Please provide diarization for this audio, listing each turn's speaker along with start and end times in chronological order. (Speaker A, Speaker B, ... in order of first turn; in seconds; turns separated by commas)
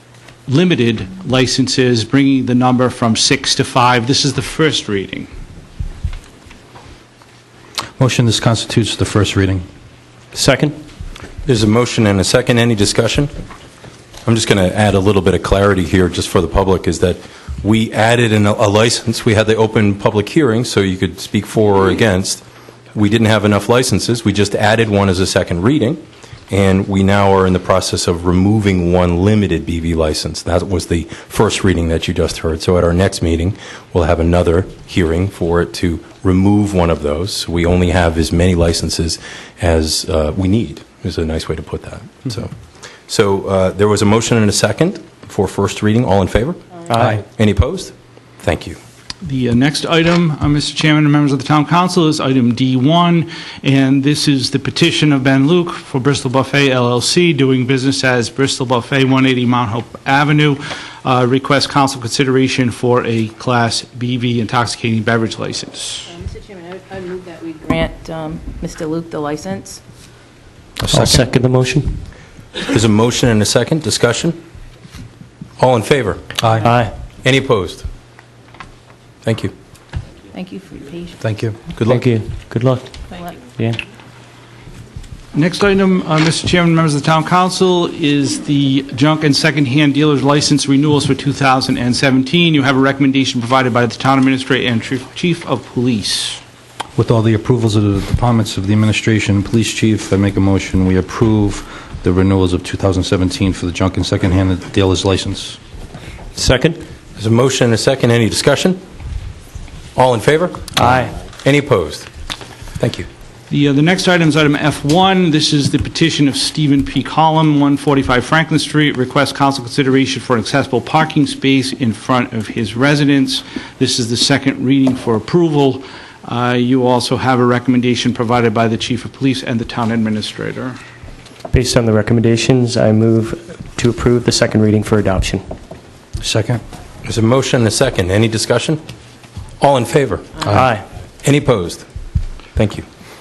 Speaker A: 0.5-5.3, Speaker B: 8.0-9.6, Speaker C: 10.3-10.8, Speaker D: 11.4-13.3, Speaker D: 14.2-22.4, Speaker D: 22.9-42.5, Speaker D: 43.1-48.8, Speaker A: 49.2-66.1, Speaker E: 66.1-69.8, Speaker B: 70.8-71.2, Speaker C: 70.9-72.0, Speaker D: 72.6-74.4, Speaker D: 75.6-76.3, Speaker B: 76.4-76.7, Speaker C: 76.6-76.9, Speaker D: 77.2-77.8, Speaker D: 79.2-79.5, Speaker E: 80.3-81.2, Speaker B: 81.2-81.7, Speaker D: 81.8-82.0, Speaker C: 81.8-83.8, Speaker E: 83.1-83.3, Speaker A: 85.3-96.4, Speaker B: 97.0-105.6, Speaker C: 106.3-106.8, Speaker D: 107.2-108.8, Speaker D: 109.9-112.1, Speaker C: 110.8-111.1, Speaker D: 112.8-113.1, Speaker A: 113.5-130.8, Speaker C: 131.5-135.4, Speaker B: 136.2-136.6, Speaker D: 137.0-138.8, Speaker D: 139.6-140.6, Speaker C: 140.5-140.8, Speaker D: 141.2-141.8, Speaker D: 142.5-142.8